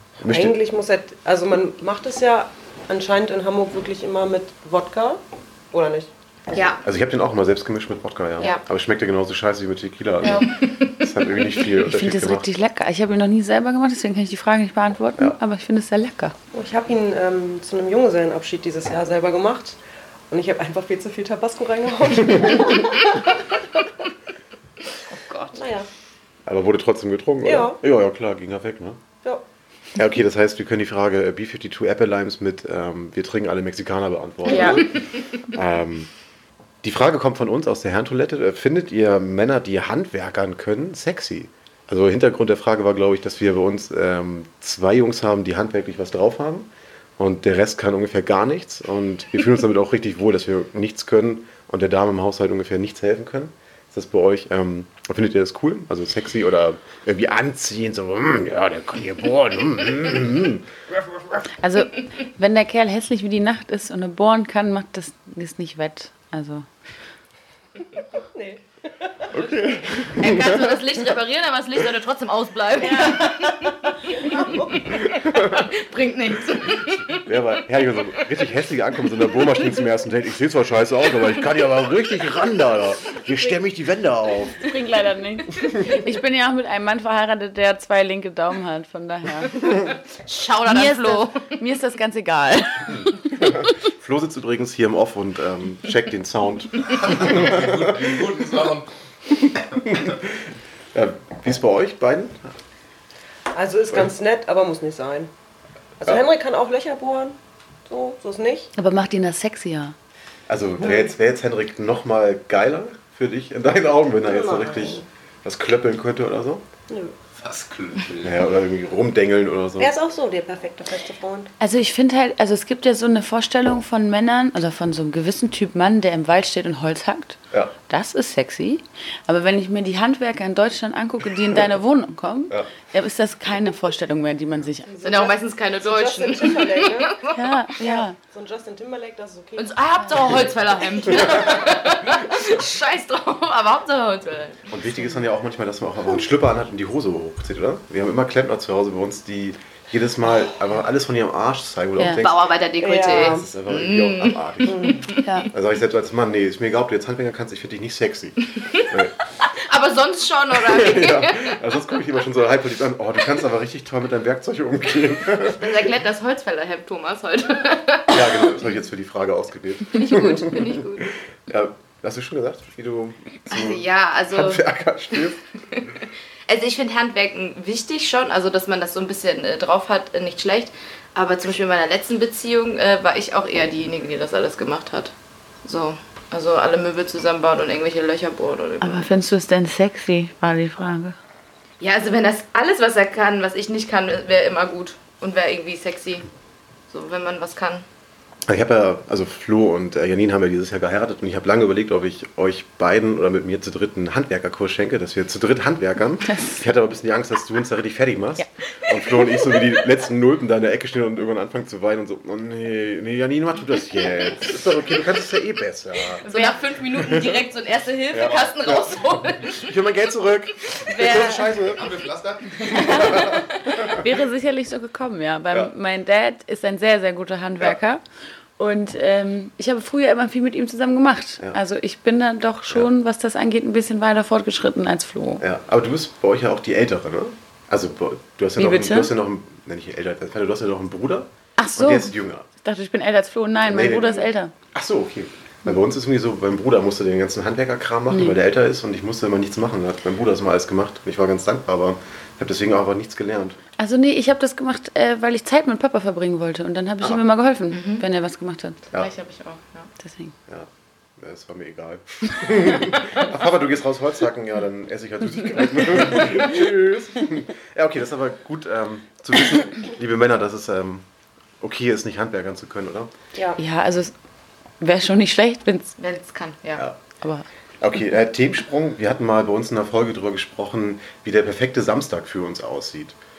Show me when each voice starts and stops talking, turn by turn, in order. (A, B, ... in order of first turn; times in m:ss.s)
0:00.2-0:00.6 A
0:00.3-0:05.2 B
0:05.7-0:06.1 B
0:06.5-0:06.8 C
0:06.8-0:12.5 A
0:10.2-0:11.6 C
0:11.8-0:16.3 D
0:16.5-0:19.8 B
0:20.3-0:23.4 B
0:25.3-0:25.6 C
0:25.5-0:25.9 B
0:26.5-0:29.0 A
0:27.4-0:27.8 B
0:30.0-0:36.1 A
0:34.5-0:34.9 D
0:36.8-1:00.7 A
1:01.6-1:06.7 D
1:08.3-1:09.4 B
1:09.3-1:10.8 A
1:10.1-1:18.2 C
1:12.8-1:13.4 D
1:13.0-1:13.7 B
1:14.2-1:14.9 B
1:14.9-1:15.6 A
1:16.6-1:24.7 A
1:24.6-1:29.5 D
1:30.2-1:31.6 C
1:30.7-1:33.7 D
1:33.4-1:38.2 A
1:36.9-1:38.9 E
1:39.4-1:40.4 A
1:40.9-1:42.5 A
1:43.5-1:45.3 B
1:46.0-1:48.7 B
1:48.8-1:50.0 D
1:50.5-1:56.6 A
1:50.8-1:51.1 B
1:54.2-1:55.0 B
1:57.4-1:58.5 E
1:58.2-1:59.9 A
1:59.8-2:01.5 B
2:01.6-2:07.4 D
2:07.9-2:14.9 D
2:14.9-2:17.2 B
2:15.0-2:17.4 C
2:17.3-2:18.2 D
2:17.8-2:19.7 B
2:19.6-2:24.7 C
2:24.7-2:32.5 A
2:32.0-2:32.2 D
2:32.2-2:35.3 C
2:32.8-2:33.5 B
2:33.1-2:39.2 A
2:34.7-2:35.1 B
2:35.2-2:35.5 D
2:39.4-2:41.6 C
2:40.6-2:45.8 A
2:45.4-2:48.5 C
2:48.1-2:50.8 A
2:49.9-2:51.1 C
2:51.5-2:55.4 A
2:53.5-2:54.6 C
2:55.7-3:09.1 C
3:08.8-3:11.2 D
3:11.8-3:16.3 C
3:16.9-3:17.8 C
3:18.5-3:36.2 A
3:26.3-3:26.6 D
3:36.2-3:39.8 C
3:36.2-3:36.6 D
3:37.0-3:37.4 A
3:38.1-3:42.1 A
3:40.9-3:41.5 D
3:41.7-3:43.1 E
3:42.6-3:48.0 D
3:42.9-3:44.0 A
3:48.6-3:55.4 D
3:55.4-4:02.5 A
3:58.6-3:59.1 D
4:01.6-4:04.5 D
4:03.7-4:04.2 A
4:04.7-4:13.6 A
4:08.1-4:08.4 D
4:13.8-4:18.8 D
4:17.7-4:18.0 C
4:18.9-4:19.9 C
4:20.0-4:20.3 D
4:20.5-4:31.1 A
4:31.6-4:33.1 A
4:33.6-4:34.1 D
4:34.8-4:36.0 D
4:36.0-4:36.9 C
4:37.8-4:43.2 A